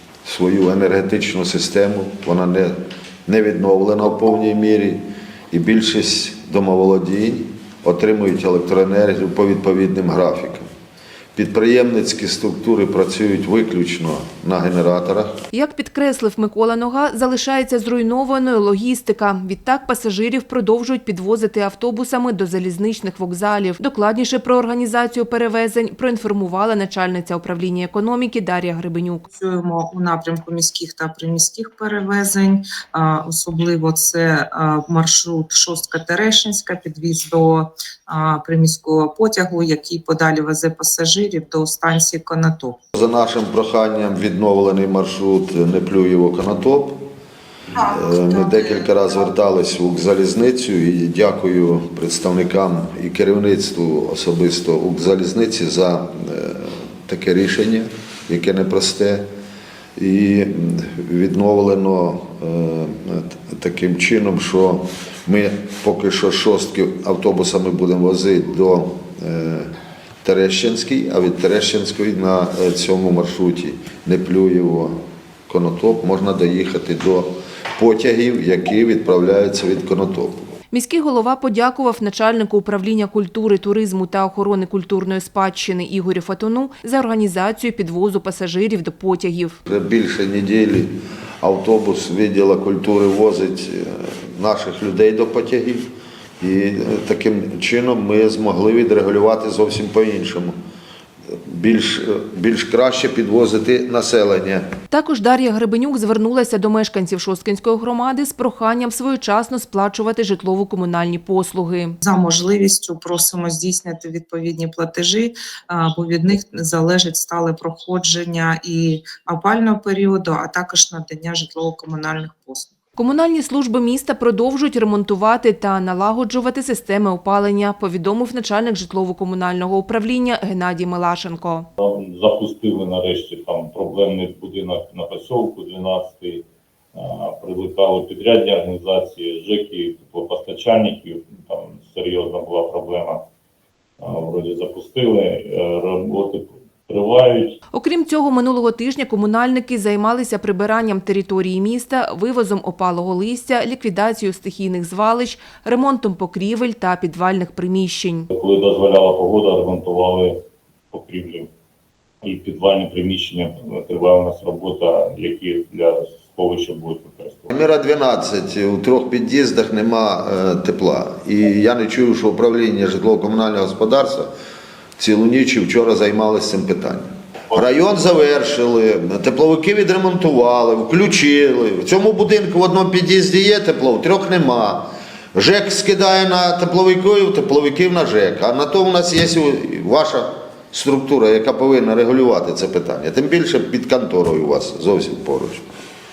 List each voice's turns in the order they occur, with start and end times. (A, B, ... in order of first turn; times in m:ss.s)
0:00.2-0:10.7 A
0:11.4-0:15.3 A
0:15.5-0:29.3 B
0:29.3-0:42.8 C
0:42.9-0:47.0 A
0:47.8-0:48.7 C
0:47.8-0:59.2 A
1:00.0-1:09.7 A
1:10.2-1:15.0 A
1:15.5-1:20.4 A
1:20.7-1:29.6 B
1:29.7-1:35.9 A
1:36.4-1:40.6 A
1:41.3-1:44.7 A
1:44.9-1:52.0 B
1:52.0-2:02.7 C
2:03.0-2:11.7 B
2:11.8-2:23.2 D
2:24.0-2:27.6 D
2:27.7-2:38.3 B
2:38.3-2:40.4 D
2:40.9-2:41.5 D
2:42.2-2:47.5 D
2:47.5-2:54.3 A
2:55.0-3:15.6 A